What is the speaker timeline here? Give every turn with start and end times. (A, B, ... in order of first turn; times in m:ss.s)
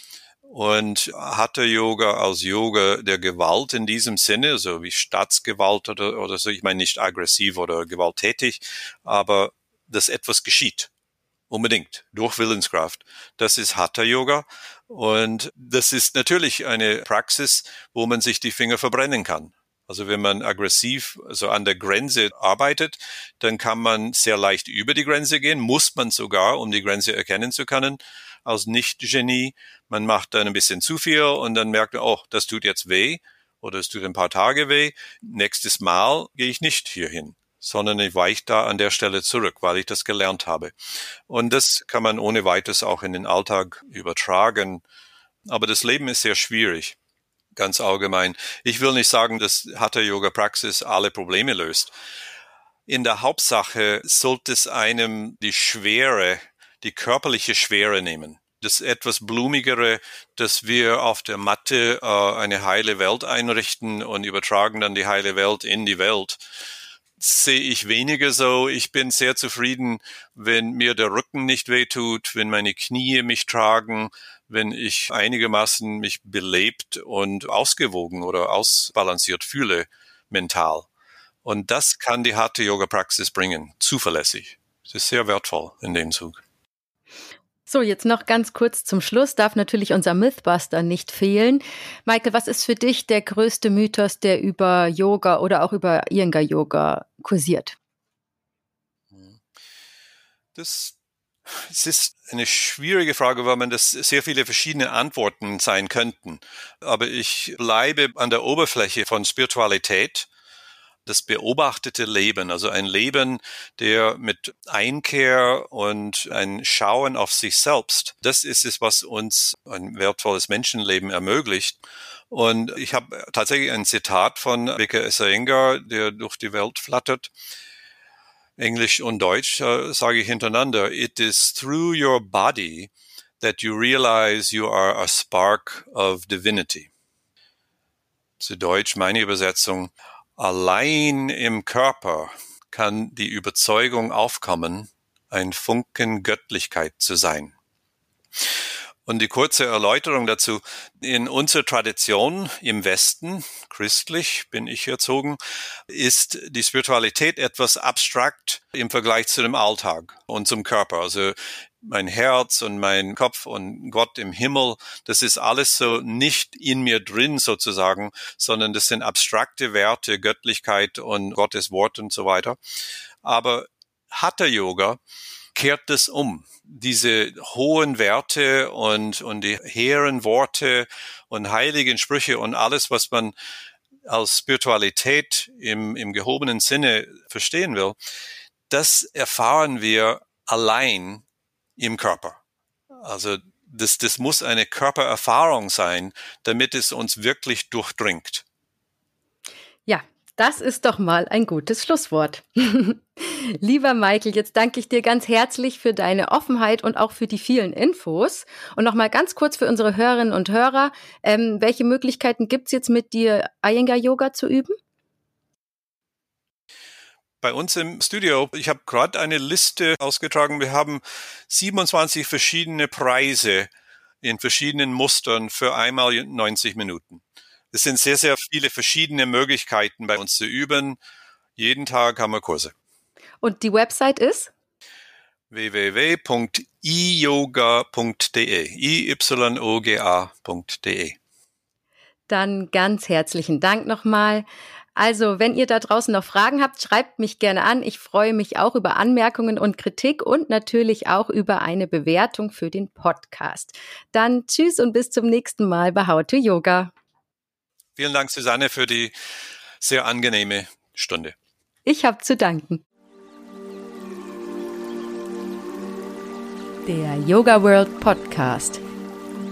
0:00.4-0:10.9 A
0:11.5-0:40.7 A
0:41.3-0:44.8 A
0:45.5-0:47.0 A
0:47.5-0:51.9 A
0:52.9-1:06.4 A
1:07.2-1:20.9 A
1:21.4-1:26.4 A
1:27.7-1:37.8 B
1:39.1-1:39.4 A
1:40.5-1:41.0 A
1:41.5-1:50.3 A
1:51.0-2:01.8 A
2:02.3-2:07.3 A
2:08.6-2:16.9 A
2:18.4-2:27.5 A
2:29.0-2:52.6 A
2:53.2-2:55.0 A
2:55.5-3:03.3 A
3:04.0-3:08.0 A
3:08.7-3:11.2 A
3:11.8-3:12.4 A
3:13.0-3:18.4 A
3:19.8-3:34.7 B
3:37.4-3:43.7 A
3:44.2-3:51.0 A
3:51.6-3:52.7 A
3:53.4-3:54.5 B
3:55.5-4:01.2 A
4:02.3-4:16.9 B
4:18.0-4:19.1 A
4:19.8-4:21.3 A
4:21.8-4:22.8 B
4:26.8-4:28.8 B